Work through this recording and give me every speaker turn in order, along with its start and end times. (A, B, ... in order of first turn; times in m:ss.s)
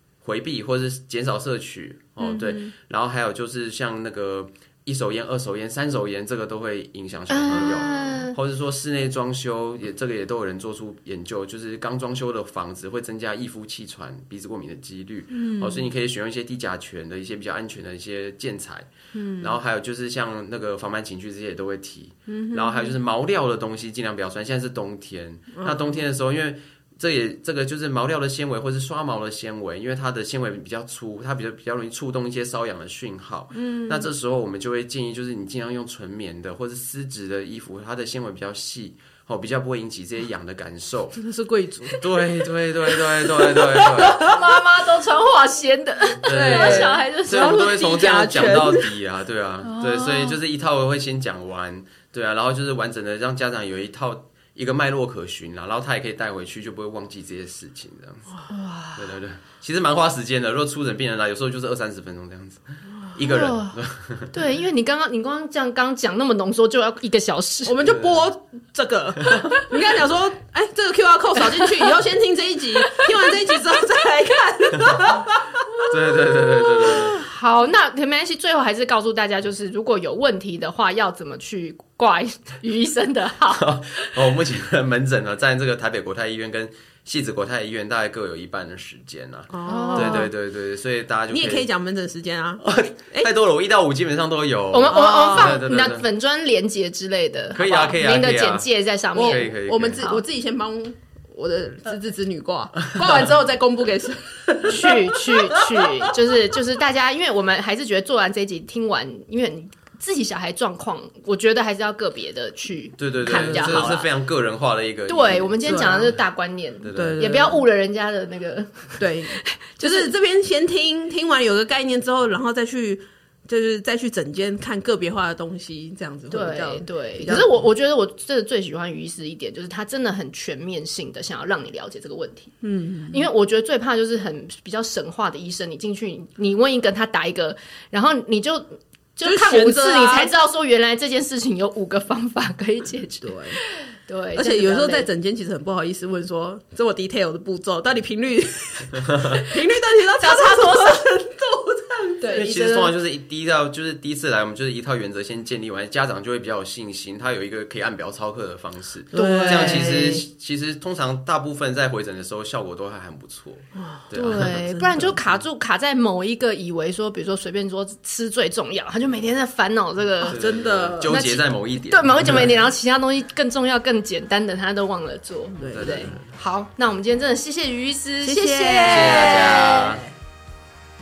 0:00.2-0:41.2 A
0:07.3-0:08.4 B
0:15.3-0:15.8 C
0:19.1-0:19.6 C
0:22.3-0:23.0 C
0:25.5-0:25.9 C
0:33.5-0:34.1 C
0:41.2-0:42.3 C
0:41.9-0:44.3 A
0:42.9-0:44.4 C
0:43.8-0:48.6 B
0:46.2-0:58.3 A
0:46.3-0:48.9 C
0:49.6-0:50.4 B
0:58.5-0:59.1 B
0:59.0-1:04.3 A
1:03.0-1:03.2 C
1:03.2-1:07.8 B
1:07.7-1:15.8 C
1:07.8-1:08.2 A
1:15.9-1:17.3 A
1:16.5-1:17.2 C
1:16.7-1:24.2 B
1:23.6-1:31.7 A
1:29.5-1:30.3 C
1:29.7-1:30.3 B
1:31.3-1:33.3 C
1:32.6-1:36.1 A
1:34.7-1:40.2 B
1:34.9-1:35.6 C
1:37.5-1:40.1 A
1:39.1-1:45.8 C
1:43.0-1:43.3 A
1:44.7-1:54.1 B
1:53.0-1:56.1 A
1:53.2-1:54.0 C
1:55.1-2:00.1 B
1:55.6-1:56.1 C
1:56.8-1:57.3 A
1:56.9-1:57.6 C
1:59.0-2:07.5 C
2:06.3-2:12.6 B
2:12.6-2:13.3 C
2:13.1-2:25.1 B
2:19.2-2:20.3 C
2:23.2-2:23.6 C
2:24.4-2:32.4 C
2:30.2-2:31.0 B
2:32.2-2:33.0 B
2:32.3-2:45.1 A
2:39.1-2:40.0 C
2:39.1-2:40.2 B
2:43.8-2:45.0 C
2:44.1-2:50.4 B
2:50.2-2:51.2 C
2:50.3-2:52.6 A
2:51.0-2:59.9 B
2:55.6-2:56.2 C
2:55.7-2:56.3 A
2:58.2-3:00.1 C
2:58.8-3:00.0 A